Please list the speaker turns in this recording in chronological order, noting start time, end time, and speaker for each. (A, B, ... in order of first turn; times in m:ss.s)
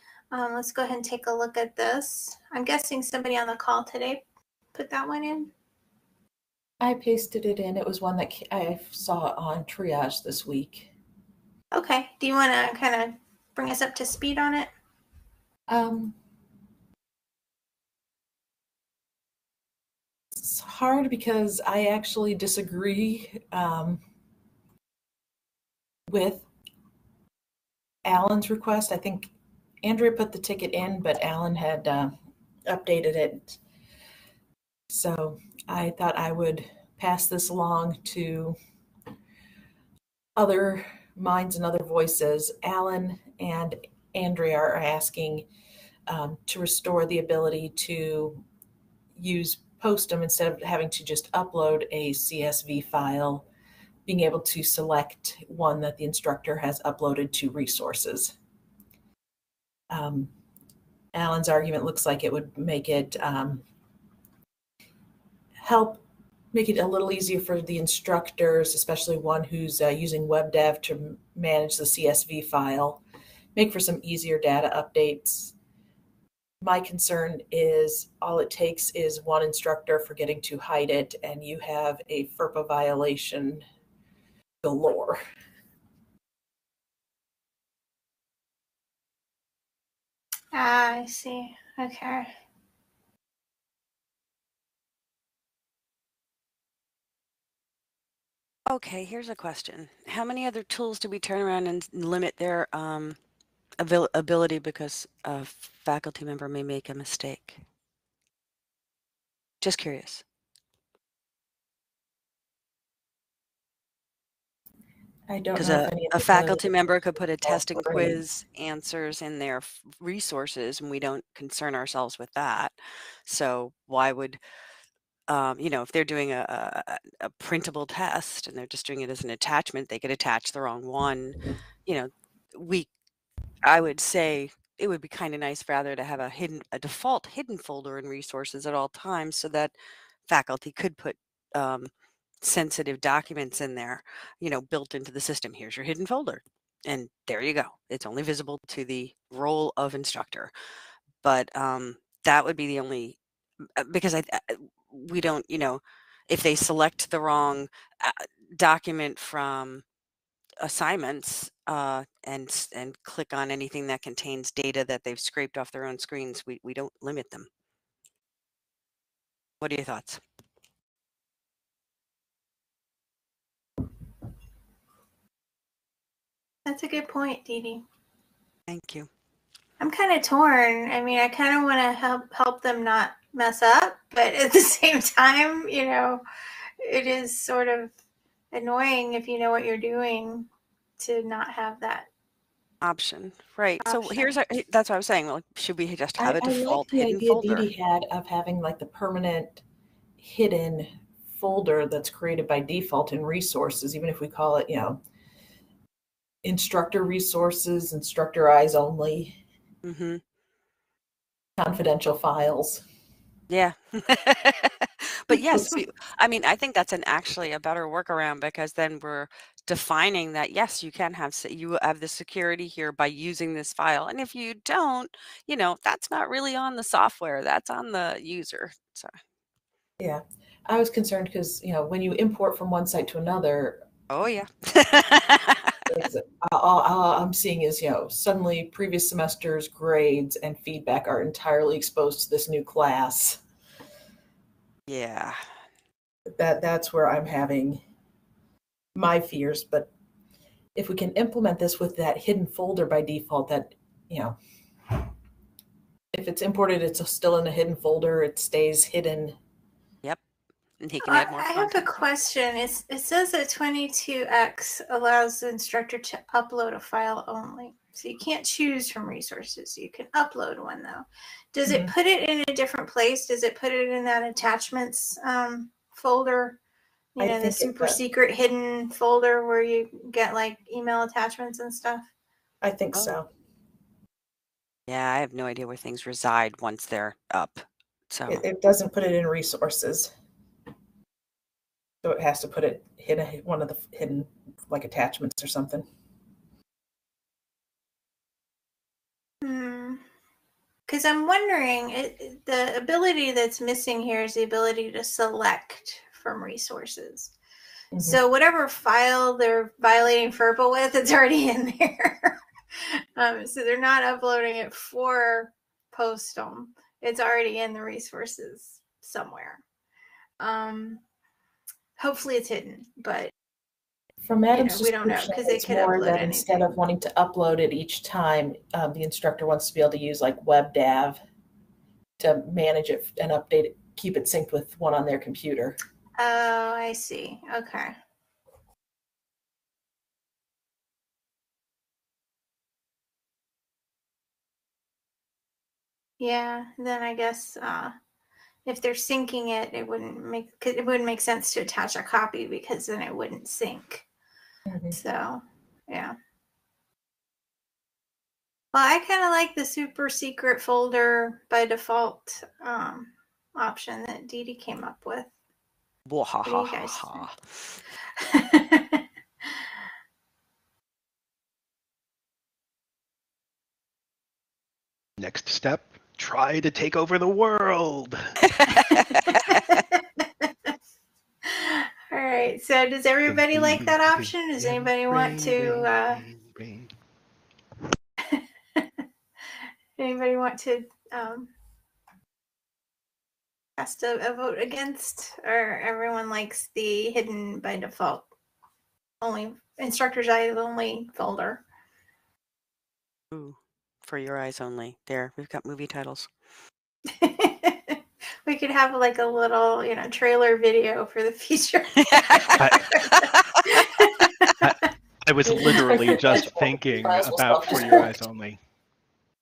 0:00.3-0:04.2 A
0:04.7-0:05.5 A
0:06.8-0:10.9 B
0:11.7-0:14.7 A
0:15.7-0:16.2 B
0:20.3-0:24.0 B
0:26.1-0:26.4 B
0:28.0-0:29.3 B
0:29.8-0:32.1 B
0:32.6-0:33.6 B
0:34.9-0:38.6 B
0:40.4-0:45.4 B
0:46.1-0:48.4 B
0:49.1-0:53.4 B
0:54.0-0:58.3 B
0:59.9-1:00.3 B
1:01.1-1:03.6 B
1:05.6-1:13.0 B
1:13.5-1:15.5 B
1:16.6-1:23.6 B
1:24.6-1:25.2 B
1:30.5-1:32.3 A
1:38.7-1:43.2 C
1:43.8-1:47.6 C
1:49.6-1:50.2 C
1:55.3-1:56.7 B
1:55.5-2:02.7 C
1:57.4-1:58.2 B
2:03.2-2:04.4 C
2:05.3-2:12.9 C
2:13.6-2:19.7 C
2:20.3-2:21.9 C
2:22.4-2:30.5 C
2:31.2-2:33.2 C
2:33.8-2:39.8 C
2:40.6-2:47.5 C
2:49.6-2:50.2 C
2:56.6-2:57.8 A
2:58.7-2:59.1 C
2:59.8-3:06.2 A
3:06.8-3:07.9 A
3:08.5-3:10.5 A
3:11.0-3:12.1 A
3:12.8-3:17.7 C
3:13.8-3:14.3 A
3:16.2-3:19.6 B
3:20.2-3:25.0 B
3:26.4-3:29.4 B
3:29.8-3:30.2 C
3:31.6-3:32.8 B
3:33.5-3:49.2 C
3:35.3-3:35.8 B
3:50.0-3:53.8 B
3:54.1-3:55.8 C
3:55.9-4:03.4 B
4:04.9-4:05.4 C
4:06.3-4:07.8 B
4:08.9-4:09.9 B
4:10.7-4:14.4 B
4:16.1-4:19.4 B
4:20.8-4:21.9 C
4:21.0-4:36.6 A
4:31.7-4:31.9 B
4:37.1-4:42.1 A
4:37.2-4:38.0 B
4:42.6-4:43.3 B
4:44.9-4:48.4 C
4:48.3-4:50.1 B
4:52.0-4:55.8 B
4:59.4-5:00.0 A
5:00.9-5:07.3 A
5:07.9-5:08.2 B
5:08.0-5:19.6 A
5:20.4-5:21.0 A
5:22.0-5:23.3 A
5:24.2-5:31.2 B
5:24.5-5:26.7 A
5:32.2-5:35.8 B
5:36.2-5:37.9 A
5:46.2-5:47.9 A
5:48.6-5:54.0 A
5:54.6-5:55.0 B
5:54.9-5:56.1 A
5:58.7-6:05.3 A
6:06.0-6:07.8 C
6:06.4-6:07.3 A
6:08.2-6:09.6 A
6:15.2-6:18.4 D
6:18.5-6:19.6 C
6:19.1-6:20.7 A
6:21.4-6:26.2 A
6:23.3-6:26.9 D
6:28.3-6:28.8 A
6:30.0-6:31.5 A
6:33.8-6:38.2 A
6:39.2-6:41.6 A
6:43.3-6:46.3 C
6:47.1-6:54.7 A
6:52.0-6:54.5 C
6:52.6-6:53.0 D
6:54.6-6:58.6 D
6:55.4-6:58.1 B